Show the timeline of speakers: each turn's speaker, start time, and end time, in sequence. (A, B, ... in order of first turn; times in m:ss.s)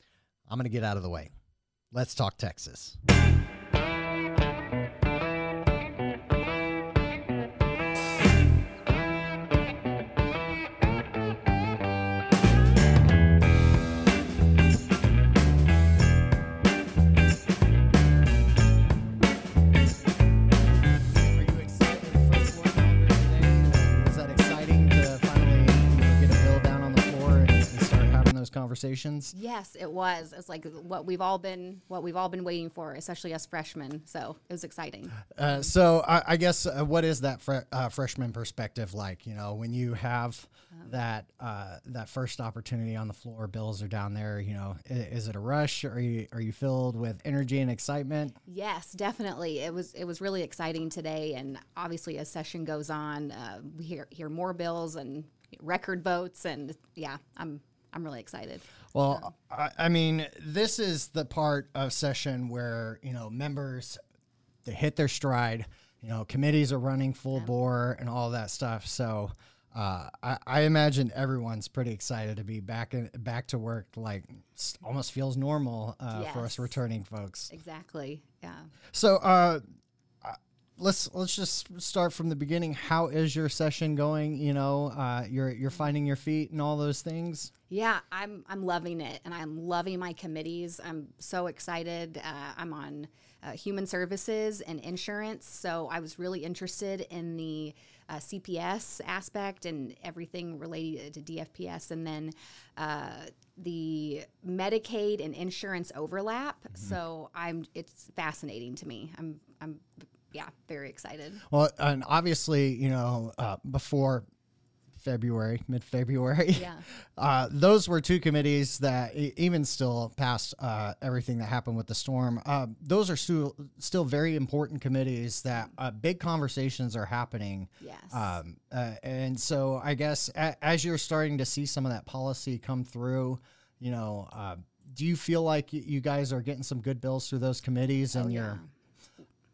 0:00.5-0:01.3 A
0:01.9-0:03.0 A
0:21.1-0:29.3 A
0:29.3-0:35.7 B
0:35.3-0:48.4 A
0:48.5-0:59.2 B
0:58.9-1:04.0 A
1:04.6-1:17.5 A
1:16.1-1:16.8 B
1:17.5-1:18.7 B
1:18.9-1:19.6 A
1:20.2-1:27.5 A
1:27.7-1:51.4 B
1:51.5-1:54.2 A
1:55.0-2:18.6 A
1:56.5-1:56.8 B
2:07.8-2:08.4 B
2:18.1-2:18.7 B